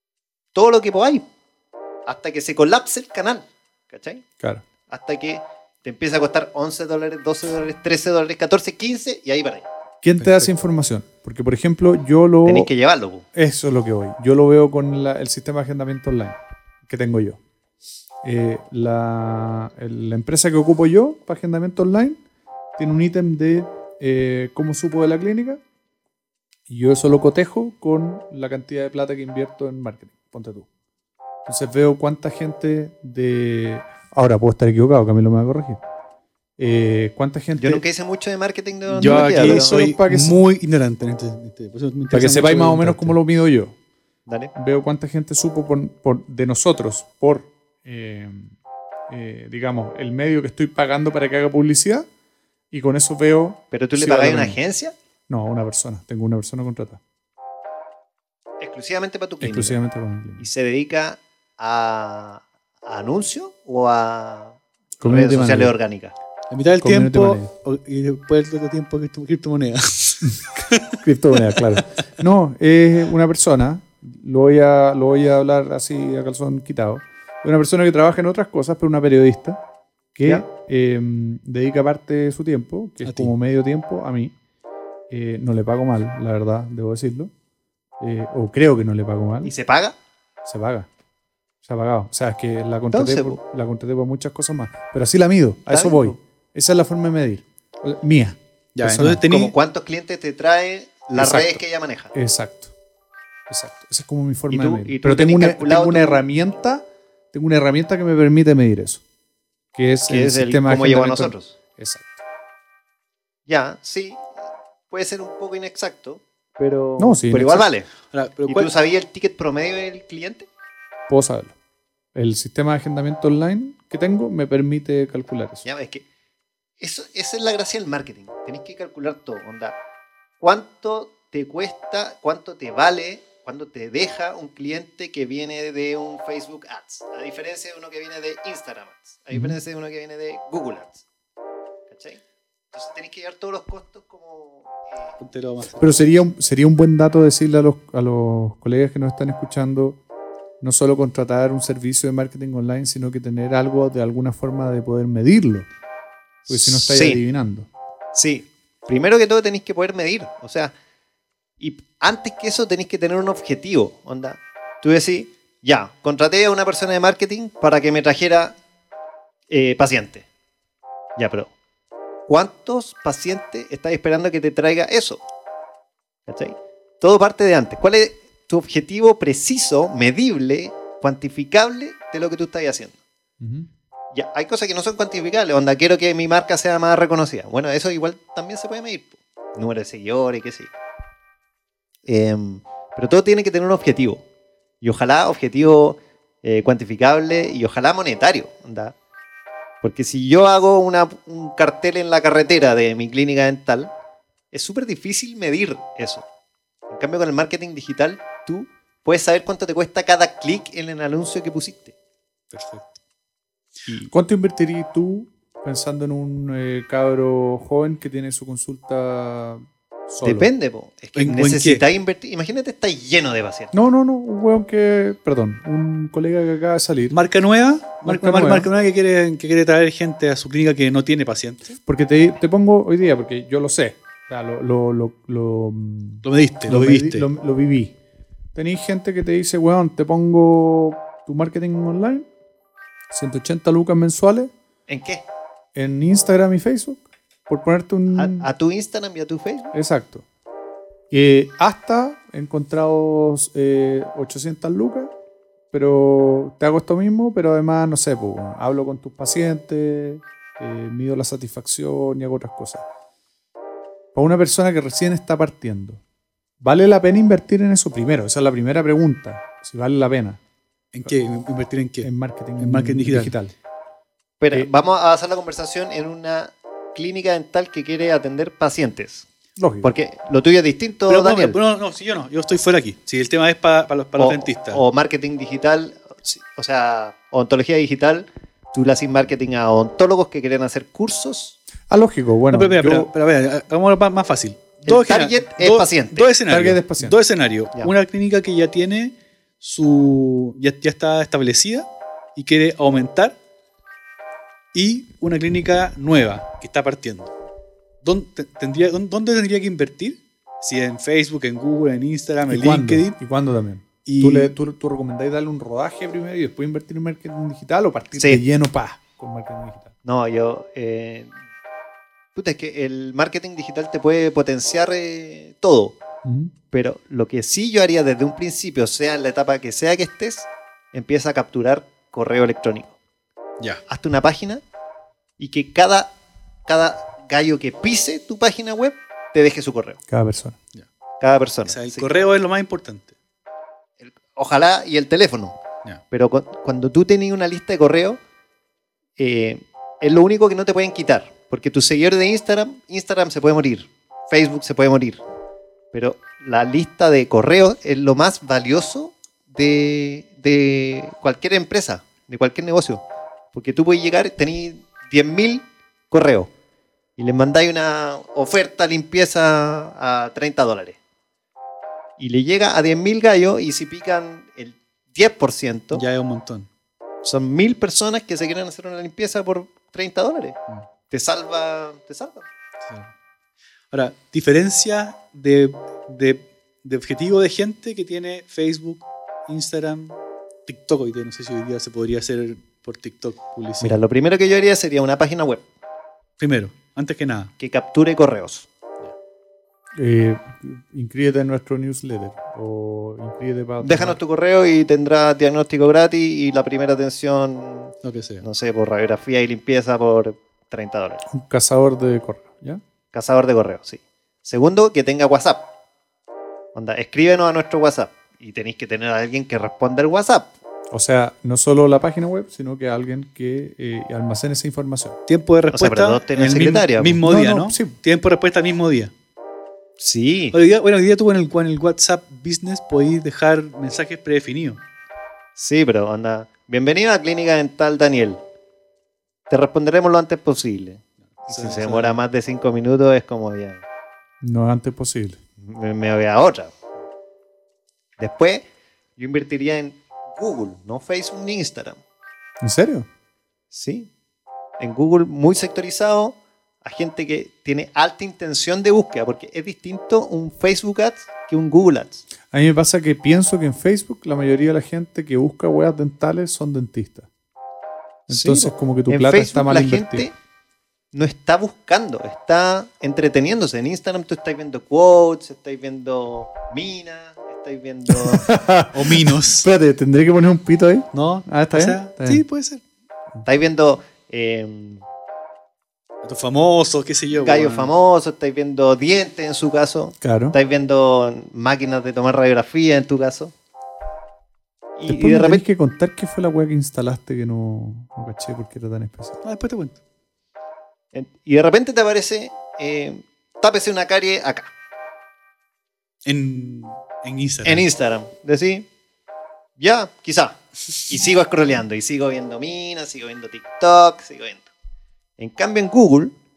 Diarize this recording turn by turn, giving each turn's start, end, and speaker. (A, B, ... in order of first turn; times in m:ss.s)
0:00.5-0:01.2 A
0:02.0-0:04.2 A
0:04.9-0:09.6 A
0:10.0-0:12.7 B
0:10.2-0:10.5 C
0:12.4-0:13.3 A
0:13.3-0:17.4 B
0:18.2-0:22.2 B
0:22.8-0:25.6 B
0:26.7-0:30.7 B
0:31.4-0:35.8 B
0:36.6-0:37.8 B
0:37.6-0:39.8 A
0:38.9-0:43.2 C
0:39.0-0:40.4 B
0:42.1-0:43.8 B
0:44.3-0:44.5 A
0:44.5-0:48.5 B
0:49.1-0:52.1 B
0:52.7-0:54.6 B
0:53.7-0:54.9 A
0:55.3-0:57.0 B
0:58.6-0:59.8 A
0:59.4-1:00.5 B
1:00.4-1:06.1 A
1:05.0-1:05.7 B
1:06.5-1:11.8 C
1:06.8-1:07.5 B
1:11.0-1:19.6 B
1:20.1-1:24.3 B
1:23.0-1:23.3 C
1:25.1-1:27.3 B
1:28.0-1:29.5 B
1:29.4-1:30.0 A
1:30.4-1:30.9 B
1:31.6-1:39.2 B
1:32.9-1:33.4 A
1:35.7-1:36.1 A
1:38.7-1:39.5 C
1:39.2-1:42.1 A
1:41.2-1:41.6 B
1:42.1-1:42.7 B
1:43.5-1:49.0 B
1:44.5-1:46.2 A
1:49.7-1:52.2 B
1:50.1-1:51.5 A
1:53.5-1:54.3 A
1:54.9-1:57.9 A
1:57.0-1:57.7 B
1:58.1-1:58.7 C
1:58.5-2:00.4 A
2:01.1-2:01.5 B
2:02.1-2:05.6 B
2:05.6-2:06.0 A
2:06.8-2:09.8 A
2:10.4-2:21.0 A
2:19.3-2:19.6 B
2:21.9-2:22.2 A
2:22.7-2:25.2 A
2:25.2-2:26.0 C
2:25.8-2:30.0 B
2:30.6-2:35.7 B
2:36.4-2:37.7 B
2:36.5-2:37.2 A
2:38.1-2:40.7 A
2:41.6-2:48.6 A
2:49.5-2:50.2 A
2:51.2-2:51.5 A
2:52.3-2:55.2 A
2:56.3-3:03.0 A
3:03.4-3:03.7 B
3:04.1-3:10.7 A
3:12.0-3:14.2 A
3:14.8-3:18.9 A
3:19.8-3:23.9 A
3:24.5-3:26.2 A
3:26.9-3:31.9 A
3:32.5-3:33.0 C
3:34.1-3:40.5 B
3:40.2-3:43.7 A
3:41.1-3:41.8 C
3:43.7-3:47.2 B
3:47.1-3:51.8 C
3:48.0-3:48.7 B
3:51.8-3:57.9 B
3:56.2-3:57.3 C
3:58.5-4:02.3 B
4:03.1-4:04.5 B
4:04.9-4:05.2 A
4:05.7-4:08.5 B
4:08.1-4:09.7 A
4:09.7-4:10.2 B
4:11.1-4:15.1 B
4:15.7-4:22.8 B
4:24.1-4:26.0 B
4:26.6-4:30.4 B
4:30.9-4:33.3 C
4:32.0-4:33.5 B
4:34.4-4:39.3 A
4:39.6-4:39.9 B
4:39.8-4:41.6 A
4:41.1-4:44.8 C
4:44.2-4:51.6 A
4:51.9-4:53.1 B
4:52.5-5:03.4 C
4:54.8-4:56.3 A
4:56.5-4:57.2 B
5:04.7-5:07.3 C
5:08.0-5:13.2 C
5:12.5-5:19.9 B
5:14.0-5:14.5 C
5:18.2-5:18.4 A
5:20.0-5:21.3 A
5:22.3-5:26.0 A
5:26.2-5:26.5 B
5:26.7-5:32.9 A
5:33.9-5:34.6 A
5:35.4-5:36.1 A
5:36.6-5:40.0 A
5:40.1-5:40.6 B
5:41.2-5:42.1 A
5:41.6-5:43.1 C
5:44.0-5:45.6 A
5:46.1-5:48.2 A
5:49.2-5:55.2 A
5:55.9-6:03.0 A
6:03.5-6:06.5 A
6:07.2-6:11.0 A
6:12.2-6:16.0 A
6:15.9-6:16.7 C
6:17.2-6:20.6 A
6:21.1-6:22.4 A
6:22.8-6:23.1 C
6:23.9-6:34.0 C
6:33.8-6:35.6 A
6:36.4-6:37.5 C
6:37.6-6:38.7 A
6:39.9-6:44.2 B
6:43.8-6:51.2 A
6:48.0-6:48.4 C
6:51.3-6:52.8 B
6:53.1-6:55.6 A
6:56.7-7:00.5 A
7:00.9-7:05.2 B
7:05.3-7:09.1 C
7:05.7-7:07.2 A
7:07.2-7:08.0 B
7:10.0-7:10.6 A
7:10.5-7:14.8 C
7:15.6-7:18.4 A
7:19.5-7:23.8 A
7:21.3-7:22.2 C
7:24.4-7:25.4 B
7:25.6-7:26.7 A
7:28.2-7:28.6 A
7:29.2-7:32.0 A
7:32.6-7:33.1 B
7:33.7-7:34.1 A
7:34.8-7:42.2 A
7:42.5-7:47.3 B
7:48.3-7:50.3 B
7:48.3-7:50.3 A
7:51.1-7:58.5 A
7:58.1-8:02.4 B
7:58.9-7:59.7 C
8:01.1-8:02.8 C
8:03.4-8:05.0 A
8:06.2-8:07.9 C
8:07.3-8:13.5 A
8:10.2-8:10.6 B
8:15.0-8:15.6 A
8:15.1-8:19.4 B
8:19.4-8:20.0 C
8:21.1-8:24.7 A
8:26.2-8:27.8 C
8:27.6-8:28.8 A
8:29.8-8:34.7 A
8:35.4-8:36.3 A